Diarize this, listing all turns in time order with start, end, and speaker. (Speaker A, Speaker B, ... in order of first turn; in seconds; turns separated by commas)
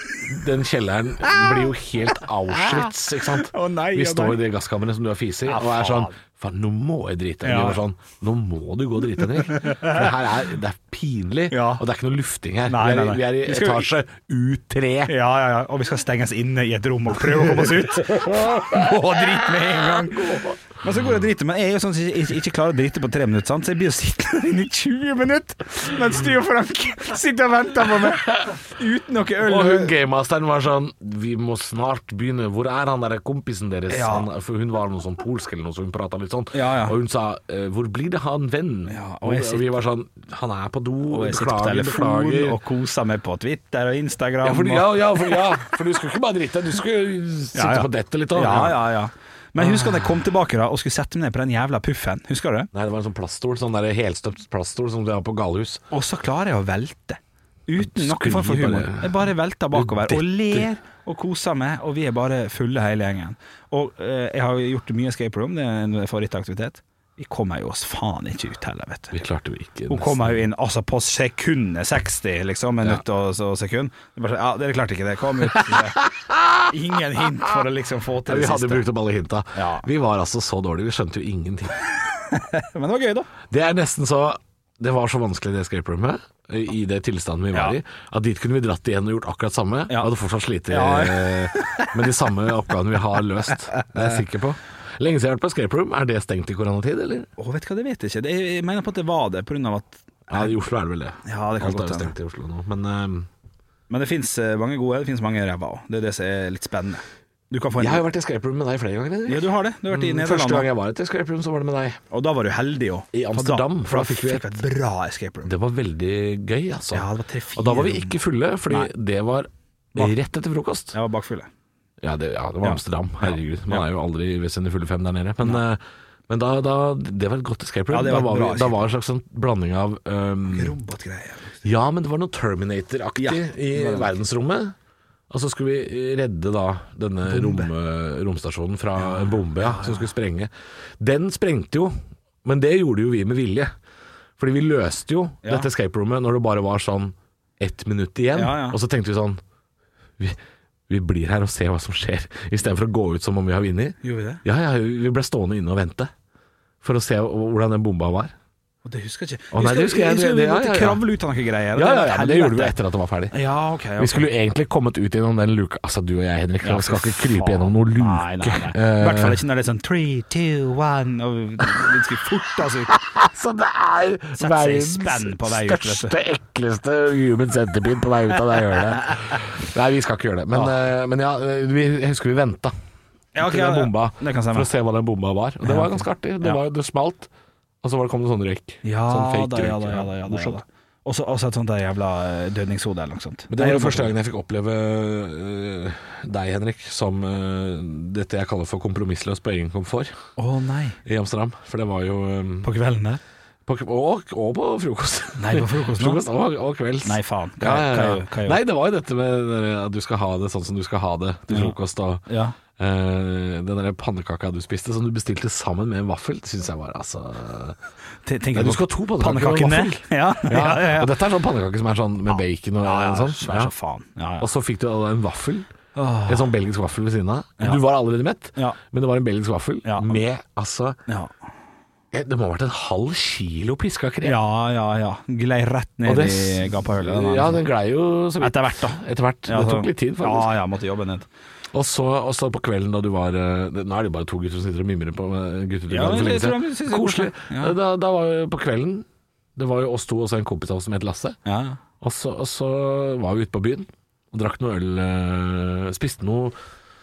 Speaker A: 0.2-15.1, Speaker B: 1.2-4.4, Speaker B: 5.5-6.1, Speaker B: 7.4-7.8, Speaker B: 9.5-10.1, Speaker B: 11.5-11.8, Speaker B: 12.7-13.9, Speaker B: 15.1-29.9, Speaker A: 17.3-21.0, Speaker A: 28.1-28.6, Speaker A: 29.4-42.6, Speaker B: 33.9-34.3, Speaker B: 36.5-37.0, Speaker B: 38.9-39.8, Speaker B: 41.1-45.7, Speaker A: 44.4-48.8, Speaker B: 47.5-52.7, Speaker A: 49.6-50.2, Speaker A: 52.7-55.8, Speaker B: 55.9-69.2, Speaker A: 57.8-60.7, Speaker A: 69.1-70.4, Speaker B: 69.9-76.0, Speaker A: 75.4-76.7, Speaker B: 76.7-78.9, Speaker A: 78.2-81.8, Speaker B: 79.5-79.9, Speaker B: 82.3-83.3, Speaker A: 83.5-97.3, Speaker B: 90.7-91.9, Speaker B: 93.7-94.1, Speaker B: 97.4-100.5, Speaker A: 100.3-103.3, Speaker B: 101.2-102.1, Speaker B: 103.9-108.0, Speaker A: 107.8-112.0, Speaker B: 109.3-110.7, Speaker B: 112.1-115.5, Speaker A: 113.1-114.6, Speaker A: 115.4-121.0, Speaker B: 116.9-118.9, Speaker B: 120.9-121.5, Speaker A: 122.0-130.8, Speaker B: 122.6-123.8, Speaker B: 127.9-128.9, Speaker B: 130.5-131.6, Speaker A: 131.6-134.8, Speaker B: 133.2-134.1, Speaker A: 135.3-143.7, Speaker B: 137.3-137.7, Speaker B: 139.0-140.1, Speaker A: 144.4-149.4, Speaker B: 145.4-145.7, Speaker B: 148.3-148.8, Speaker A: 150.2-156.1, Speaker B: 154.0-154.4, Speaker A: 156.8-158.3, Speaker B: 158.8-162.8, Speaker A: 159.5-161.1, Speaker A: 161.7-163.4, Speaker B: 163.3-164.3, Speaker A: 164.0-169.4, Speaker B: 166.6-172.9, Speaker A: 172.6-182.7, Speaker B: 174.3-176.1, Speaker B: 183.3-184.7, Speaker A: 183.4-187.3, Speaker B: 185.6-186.6, Speaker A: 187.8-190.6, Speaker B: 188.8-194.1, Speaker A: 193.5-200.1, Speaker B: 200.4-201.0, Speaker A: 201.0-202.7, Speaker B: 202.6-203.2, Speaker A: 203.7-217.8, Speaker B: 205.4-206.2, Speaker B: 207.0-208.6, Speaker B: 211.5-211.7, Speaker B: 212.3-212.6, Speaker B: 218.2-221.2, Speaker A: 218.5-223.7, Speaker B: 222.8-224.5, Speaker A: 224.4-225.7, Speaker B: 225.9-226.5, Speaker A: 226.2-231.0, Speaker B: 229.8-230.1, Speaker A: 232.1-234.4, Speaker B: 234.2-237.6, Speaker A: 236.0-240.5, Speaker B: 238.4-241.2, Speaker A: 241.7-251.4, Speaker B: 245.9-247.7, Speaker B: 251.4-251.8, Speaker A: 252.0-256.6